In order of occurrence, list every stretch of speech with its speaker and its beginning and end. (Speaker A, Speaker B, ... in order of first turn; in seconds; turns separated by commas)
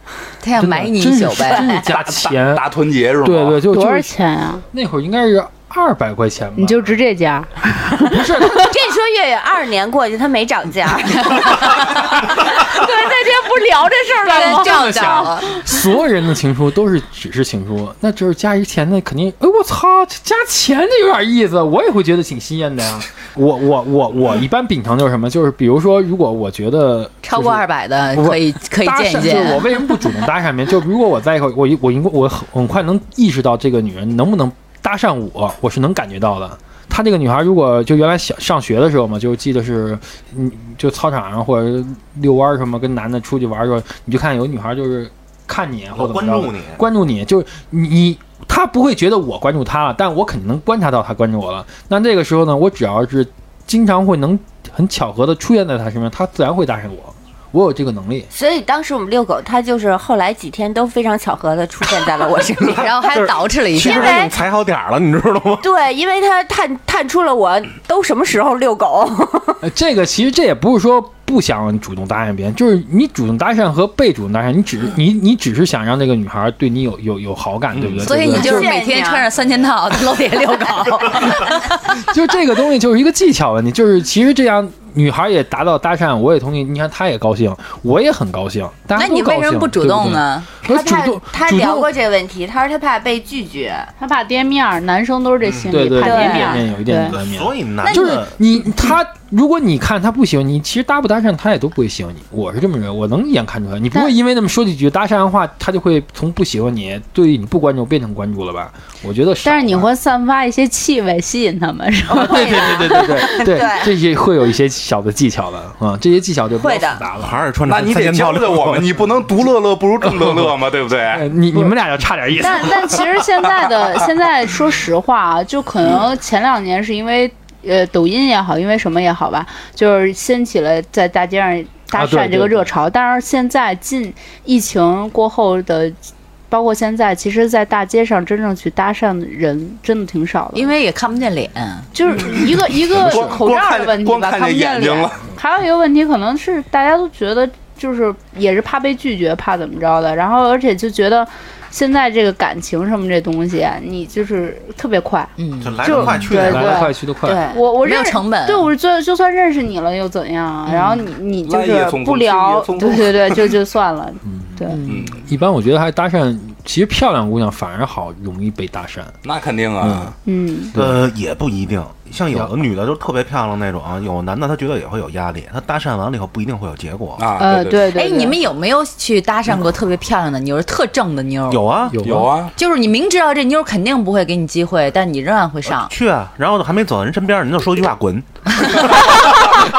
Speaker A: 0.4-1.9, Speaker B: 0.6-2.6, Speaker C: 1.9-3.6, Speaker B: 3.2-4.1, Speaker D: 3.7-4.7, Speaker B: 4.7-7.0, Speaker D: 6.6-8.7, Speaker B: 8.0-8.6, Speaker E: 8.5-15.5, Speaker D: 12.8-15.3, Speaker A: 14.3-15.4, Speaker B: 14.3-58.3, Speaker A: 27.2-29.7, Speaker F: 45.9-46.8, Speaker E: 58.3-64.3, Speaker A: 62.7-64.3, Speaker F: 63.0-65.7, Speaker E: 65.6-69.6, Speaker B: 69.6-78.7, Speaker A: 78.0-82.0, Speaker E: 78.3-79.3, Speaker B: 81.3-91.9, Speaker A: 88.9-90.5, Speaker E: 90.6-93.9, Speaker D: 94.0-97.1, Speaker B: 95.7-109.9, Speaker A: 96.0-96.4, Speaker E: 96.1-96.6, Speaker F: 97.1-98.4, Speaker E: 97.9-98.2, Speaker D: 109.4-113.5, Speaker B: 112.1-117.5, Speaker E: 112.2-114.0, Speaker E: 116.5-117.1, Speaker F: 117.2-119.0, Speaker C: 117.7-121.3, Speaker B: 120.0-120.5, Speaker B: 121.1-123.0, Speaker D: 122.4-136.0, Speaker B: 131.9-132.7, Speaker D: 136.5-140.7, Speaker A: 140.6-141.9, Speaker D: 141.9-164.8, Speaker C: 142.8-145.3, Speaker A: 155.4-155.9, Speaker F: 155.6-156.9, Speaker B: 155.9-157.4, Speaker E: 157.2-157.6, Speaker A: 157.7-158.7, Speaker A: 160.7-161.1, Speaker C: 161.4-163.5, Speaker B: 164.2-164.6, Speaker A: 164.7-165.1, Speaker C: 164.9-165.2, Speaker B: 165.2-169.2, Speaker C: 169.2-170.2, Speaker B: 169.8-170.1, Speaker D: 170.2-170.7, Speaker B: 170.7-171.0, Speaker F: 170.8-177.2, Speaker C: 177.2-178.0, Speaker D: 177.4-178.4, Speaker A: 177.9-181.7, Speaker F: 181.5-182.0, Speaker B: 181.9-182.3, Speaker C: 182.0-182.5, Speaker A: 182.6-185.9, Speaker F: 185.7-188.3